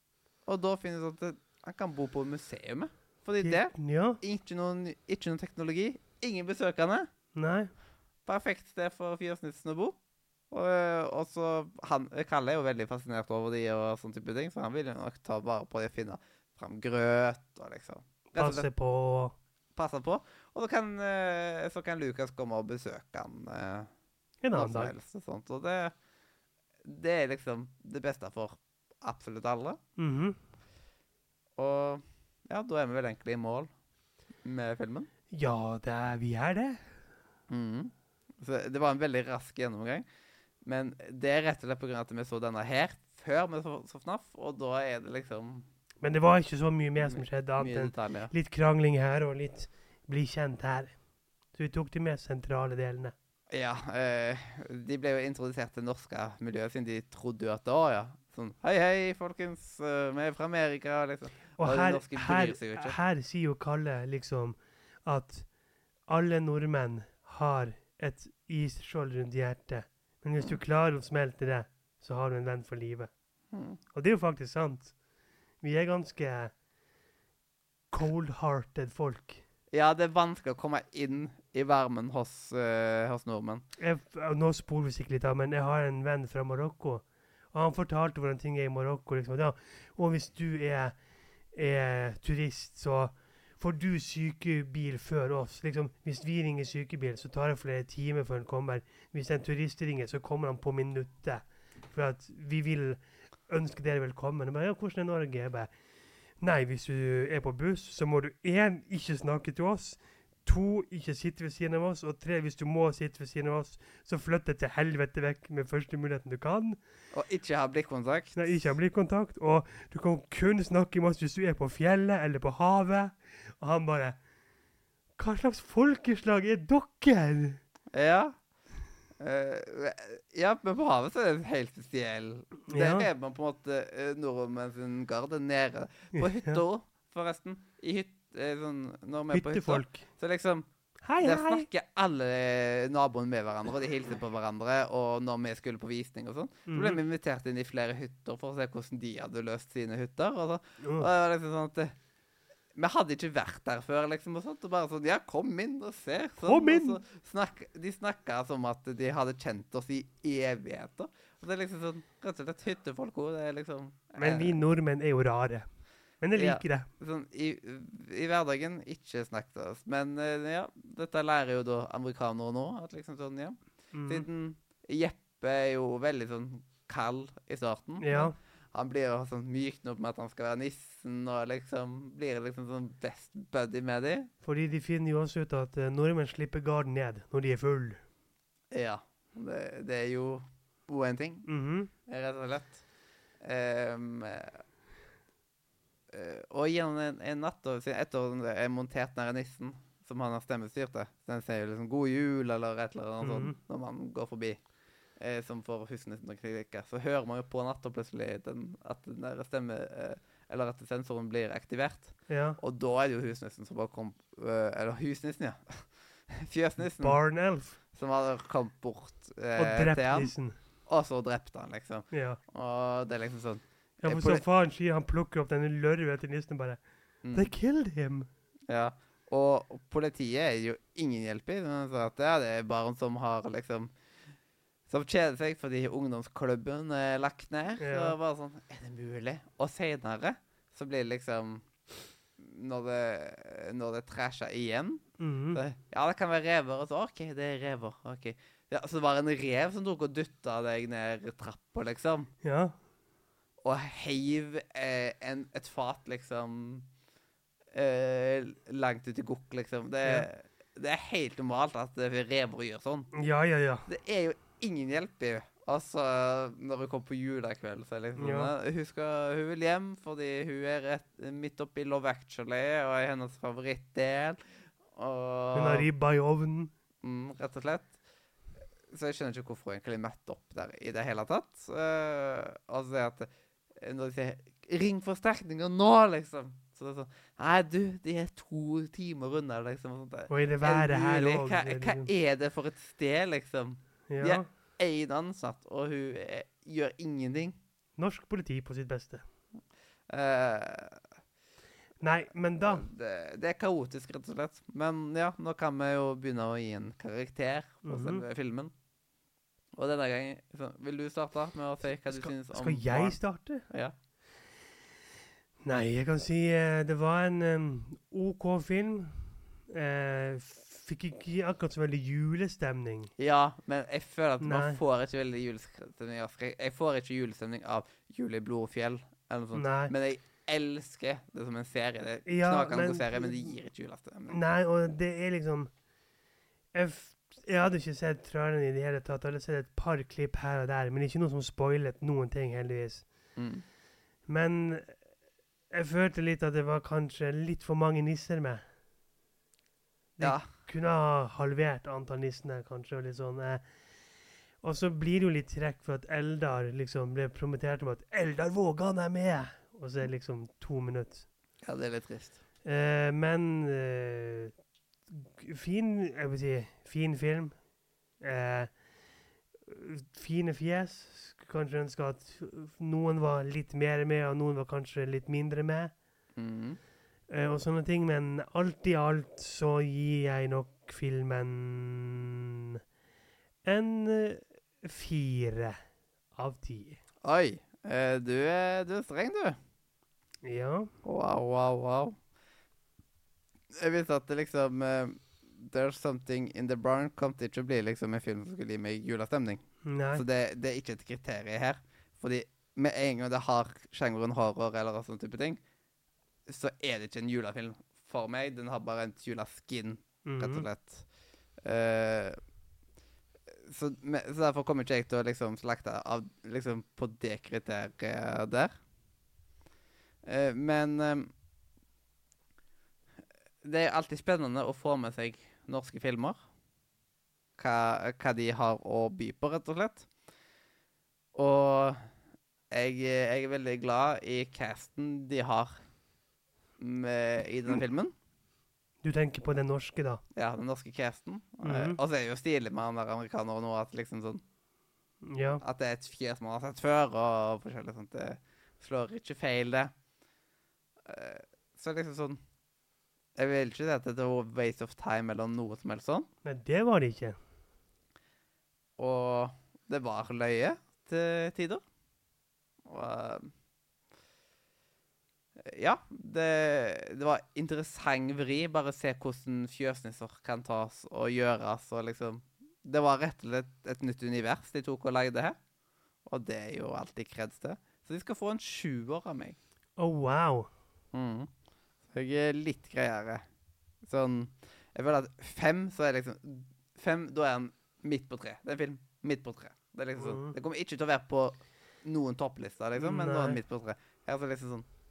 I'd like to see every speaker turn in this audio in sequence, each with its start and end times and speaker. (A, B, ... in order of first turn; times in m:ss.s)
0:00.5-0:07.1 A
0:03.4-0:04.2 B
0:07.4-0:07.7 B
0:08.3-0:10.0 A
0:10.5-0:18.7 A
0:18.4-0:19.4 B
0:19.8-0:23.9 A
0:24.4-0:24.9 B
0:24.5-0:25.9 A
0:26.8-0:29.8 A
0:30.0-0:30.4 B
0:31.6-0:33.7 A
0:34.4-0:35.1 A
0:35.3-0:36.9 B
0:37.5-0:40.0 A
0:40.6-0:45.6 A
0:46.0-0:50.9 B
0:47.0-0:48.3 A
0:51.6-0:53.1 B
0:53.5-1:03.0 A
1:01.6-1:05.5 B
1:06.1-1:13.1 B
1:13.5-1:13.8 A
1:13.9-1:14.9 B
1:15.6-1:16.5 B
1:17.9-1:19.4 B
1:19.7-1:23.6 A
1:23.8-1:30.9 B
1:31.5-1:45.7 B
1:46.4-1:56.8 B
1:57.1-1:58.6 A
1:58.4-2:04.2 B
2:05.2-2:07.6 B
2:07.9-2:08.4 A
2:09.2-2:20.7 A
2:12.7-2:13.1 B
2:16.1-2:16.6 B
2:19.3-2:20.1 B
2:21.0-2:21.7 B
2:21.2-2:31.9 A
2:26.7-2:27.0 B
2:30.8-2:31.1 B
2:32.8-2:44.6 A
2:36.4-2:37.0 B
2:44.2-2:45.6 B
2:46.2-2:46.9 B
2:46.4-3:04.3 A
2:53.9-2:54.3 B
2:58.0-2:58.4 B
3:04.4-3:08.0 B
3:08.7-3:11.5 A
3:11.5-3:11.9 B
3:12.1-3:12.8 A
3:13.4-3:14.6 A
3:16.1-3:24.6 A
3:23.2-3:23.6 B
3:25.2-3:37.2 A
3:32.3-3:32.6 B
3:36.8-3:37.8 B
3:37.9-3:40.3 A
3:39.6-3:40.6 B
3:40.9-3:44.4 A
3:42.1-3:42.4 B
3:44.0-3:46.8 B
3:47.2-3:47.5 A
3:47.3-3:48.3 B
3:48.7-3:53.9 A
3:54.9-4:01.7 A
3:57.8-3:58.2 B
4:02.4-4:12.3 A
4:05.2-4:05.6 B
4:12.4-4:12.8 B
4:13.6-4:16.9 A
4:17.7-4:23.1 A
4:23.1-4:23.9 B
4:23.9-4:34.4 A
4:28.2-4:28.5 B
4:34.9-4:35.9 A
4:35.5-4:36.7 B
4:37.0-4:37.9 A
4:38.9-4:57.6 A
4:50.3-4:52.1 B
4:54.1-4:54.5 B
4:58.0-4:59.2 B
5:00.1-5:01.1 A
5:02.0-5:02.9 B
5:02.6-5:08.7 A
5:07.8-5:08.2 B
5:09.8-5:13.2 A
5:12.0-5:13.6 B
5:15.6-5:23.1 B
5:23.2-5:34.4 A
5:24.4-5:24.8 B
5:29.6-5:29.9 B
5:32.3-5:33.4 B
5:34.3-5:35.7 B
5:36.7-5:43.1 B
5:43.4-5:43.6 A
5:44.3-5:45.0 B
5:45.7-5:48.6 B
5:50.2-5:53.6 B
5:50.2-5:50.5 A
5:54.6-6:01.3 B
6:01.6-6:02.4 A
6:02.6-6:04.5 B
6:05.1-6:07.6 B
6:08.2-6:08.7 B
6:09.6-6:15.9 B
6:16.4-6:16.8 A
6:17.3-6:22.7 B
6:23.6-6:25.8 B
6:26.4-6:27.0 B
6:27.2-6:29.6 A
6:30.4-6:30.9 B
6:31.0-6:32.2 A
6:33.8-6:39.6 A
6:39.8-6:40.2 B
6:40.1-6:45.6 A
6:46.5-6:51.1 A
6:50.3-6:50.6 B
6:51.6-6:52.4 A
6:53.5-6:58.7 A
7:00.2-7:01.3 A
7:03.6-7:06.4 A
7:07.6-7:10.1 A
7:11.4-7:12.0 A
7:12.7-7:15.8 A
7:16.8-7:18.1 A
7:19.0-7:20.2 B
7:20.4-7:24.4 A
7:21.6-7:22.0 B
7:25.2-7:25.6 B
7:25.6-7:29.9 A
7:31.0-7:32.4 A
7:33.4-7:36.3 A
7:36.4-7:37.4 B
7:39.0-7:41.8 A
7:42.9-7:43.5 A
7:45.6-7:55.6 A
7:56.3-7:59.6 A
8:00.0-8:00.7 B
8:01.1-8:01.5 A
8:02.1-8:03.4 A
8:04.0-8:14.9 A
8:10.2-8:10.6 B
8:13.0-8:13.6 B